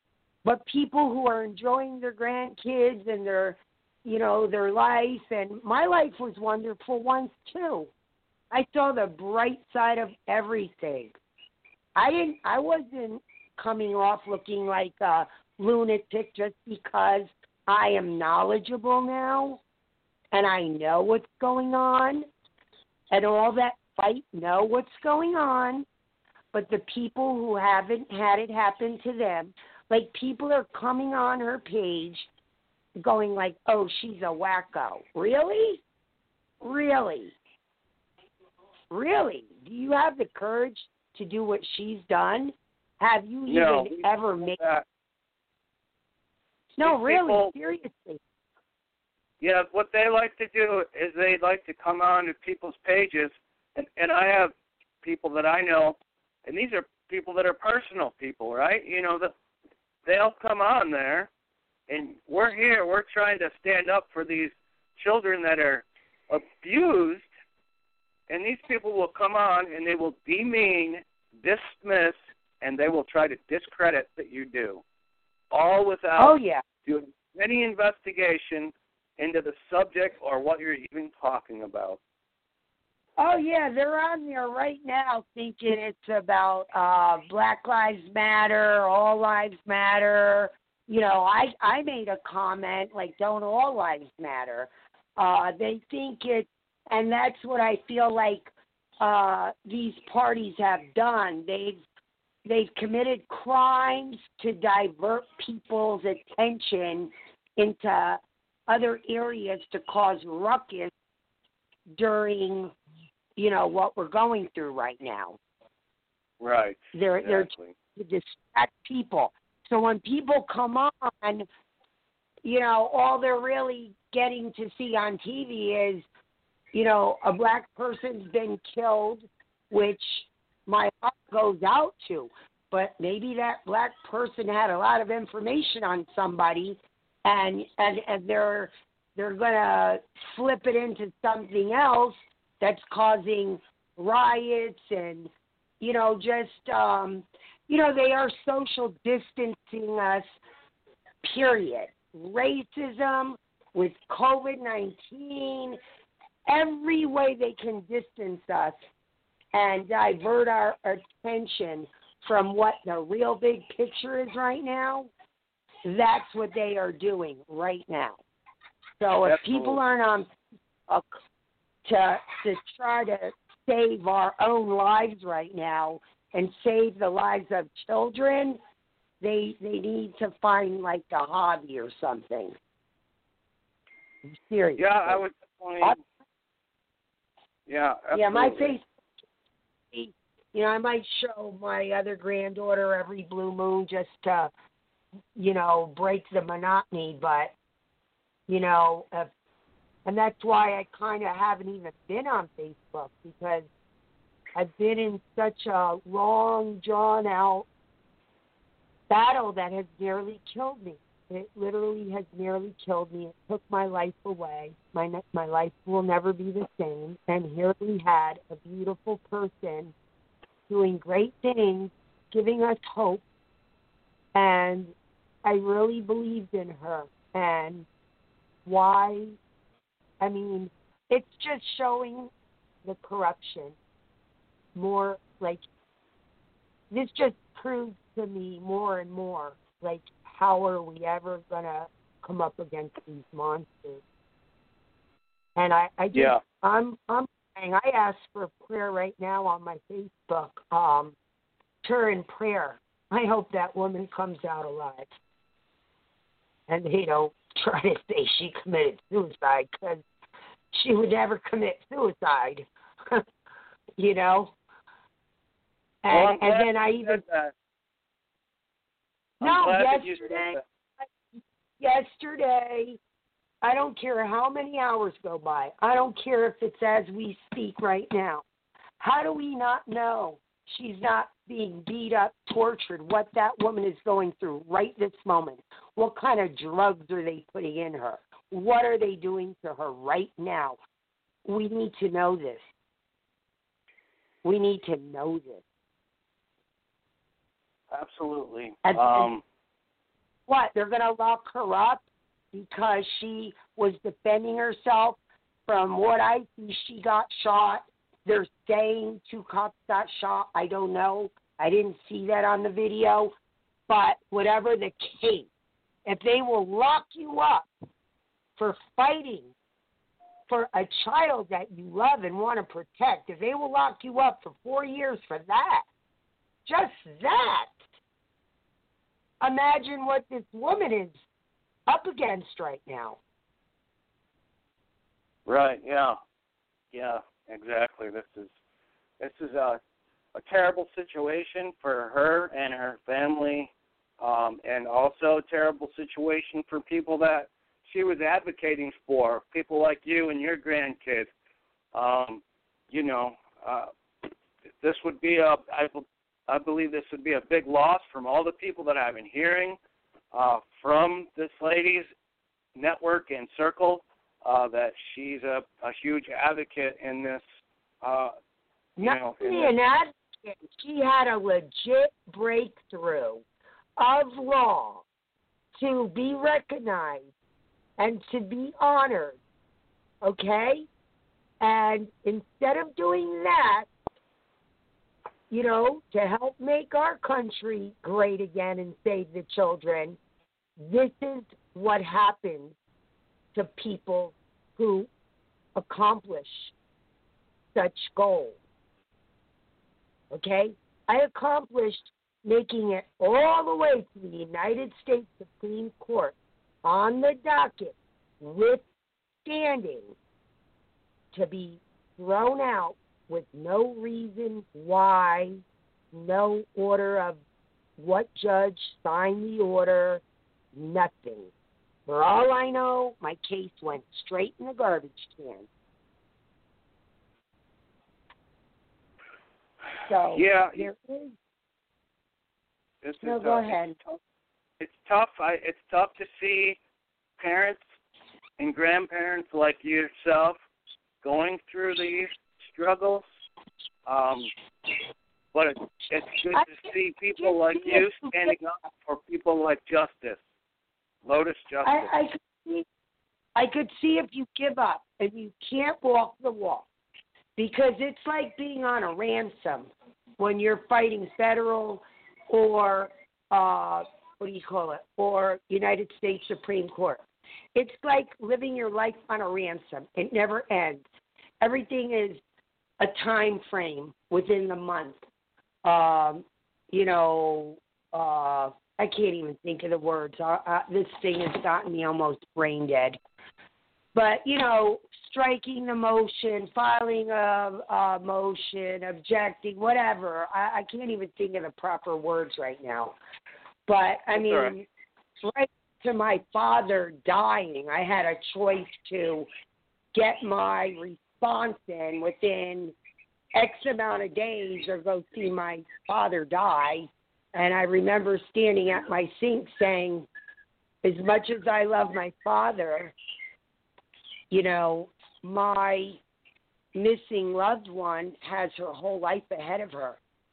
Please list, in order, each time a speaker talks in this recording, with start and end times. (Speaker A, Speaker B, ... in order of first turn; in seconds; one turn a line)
Speaker A: 0.5-7.9
Speaker A: 8.5-11.2
Speaker A: 12.0-19.6
Speaker A: 20.3-22.3
Speaker A: 23.1-25.9
Speaker A: 26.5-32.3
Speaker A: 33.0-35.8
Speaker A: 36.6-37.4
Speaker A: 38.9-44.6
Speaker B: 43.5-44.9
Speaker A: 46.8-48.2
Speaker B: 46.8-47.5
Speaker B: 49.4-59.3
Speaker B: 60.1-61.3
Speaker B: 61.9-67.3
Speaker B: 68.3-74.8
Speaker B: 75.5-82.0
Speaker A: 76.2-76.6
Speaker A: 83.2-101.8
Speaker A: 102.5-110.9
Speaker A: 112.0-112.7
Speaker A: 113.4-115.4
Speaker B: 116.4-117.7
Speaker A: 116.9-121.5
Speaker A: 122.4-126.0
Speaker A: 126.7-145.3
Speaker A: 145.8-150.3
Speaker A: 151.2-155.8
Speaker A: 156.5-158.8
Speaker A: 159.5-165.1
Speaker A: 165.8-168.2
Speaker A: 169.0-170.3
Speaker B: 169.2-169.8
Speaker A: 171.8-178.6
Speaker A: 179.2-182.6
Speaker A: 184.3-185.2
Speaker B: 184.8-186.0
Speaker B: 187.7-188.8
Speaker A: 188.1-188.9
Speaker A: 189.9-194.5
Speaker A: 195.4-197.5
Speaker A: 198.5-199.3
Speaker A: 200.1-203.7
Speaker A: 204.6-207.7
Speaker A: 209.1-219.9
Speaker A: 220.7-223.2
Speaker A: 224.3-224.9
Speaker A: 225.4-227.9
Speaker A: 228.7-229.4
Speaker A: 230.2-232.3
Speaker A: 232.8-233.8
Speaker A: 234.8-235.6
Speaker A: 236.9-244.0
Speaker A: 245.6-251.2
Speaker B: 246.1-246.4
Speaker A: 251.8-255.1
Speaker A: 256.7-260.0
Speaker A: 260.7-263.2
Speaker A: 264.0-264.5
Speaker A: 266.0-267.2
Speaker B: 266.1-267.5
Speaker B: 269.4-270.6
Speaker A: 269.4-270.6
Speaker A: 271.8-273.0
Speaker A: 273.6-278.4
Speaker A: 279.0-290.8
Speaker A: 291.4-292.6
Speaker A: 294.4-295.6
Speaker B: 297.9-299.4
Speaker A: 298.9-299.3
Speaker A: 300.5-313.3
Speaker A: 313.9-315.5
Speaker A: 316.1-317.7
Speaker A: 318.6-319.5
Speaker A: 320.5-325.9
Speaker A: 326.7-327.8
Speaker A: 329.4-331.1
Speaker A: 331.9-333.2
Speaker B: 335.5-336.2
Speaker B: 336.9-338.5
Speaker B: 339.2-339.8
Speaker B: 340.3-351.3
Speaker B: 351.9-354.3
Speaker B: 354.8-359.8
Speaker B: 360.3-362.1
Speaker B: 362.8-367.4
Speaker B: 368.0-368.3
Speaker A: 369.0-373.4
Speaker B: 369.0-369.7
Speaker A: 374.0-375.0
Speaker A: 375.8-377.3
Speaker A: 378.0-379.4
Speaker A: 380.2-380.9
Speaker A: 381.6-383.9
Speaker A: 385.5-390.2
Speaker A: 390.8-392.8
Speaker A: 393.6-395.1
Speaker A: 395.8-396.7
Speaker A: 397.8-398.6
Speaker A: 400.3-408.8
Speaker A: 409.4-410.1
Speaker A: 411.3-415.6
Speaker A: 416.1-417.4
Speaker A: 418.0-420.2
Speaker A: 420.8-421.5
Speaker A: 422.1-425.7
Speaker A: 430.1-431.4
Speaker B: 430.3-430.9
Speaker B: 433.0-434.2
Speaker A: 433.2-434.0
Speaker B: 434.8-436.8
Speaker B: 437.4-437.8
Speaker B: 438.6-440.6
Speaker B: 441.2-443.2
Speaker B: 444.1-444.5
Speaker B: 445.5-450.4
Speaker A: 446.6-448.6
Speaker B: 451.2-452.1
Speaker A: 451.8-452.9
Speaker A: 453.6-456.9
Speaker A: 457.6-467.2
Speaker A: 467.8-471.0
Speaker A: 471.6-472.4
Speaker A: 473.0-475.2
Speaker A: 475.9-483.2
Speaker A: 484.1-493.1
Speaker A: 493.9-494.9
Speaker B: 494.3-494.7
Speaker A: 495.4-499.5
Speaker A: 500.1-502.9
Speaker A: 503.6-510.3
Speaker A: 511.0-513.1
Speaker A: 514.5-516.2
Speaker A: 517.0-520.2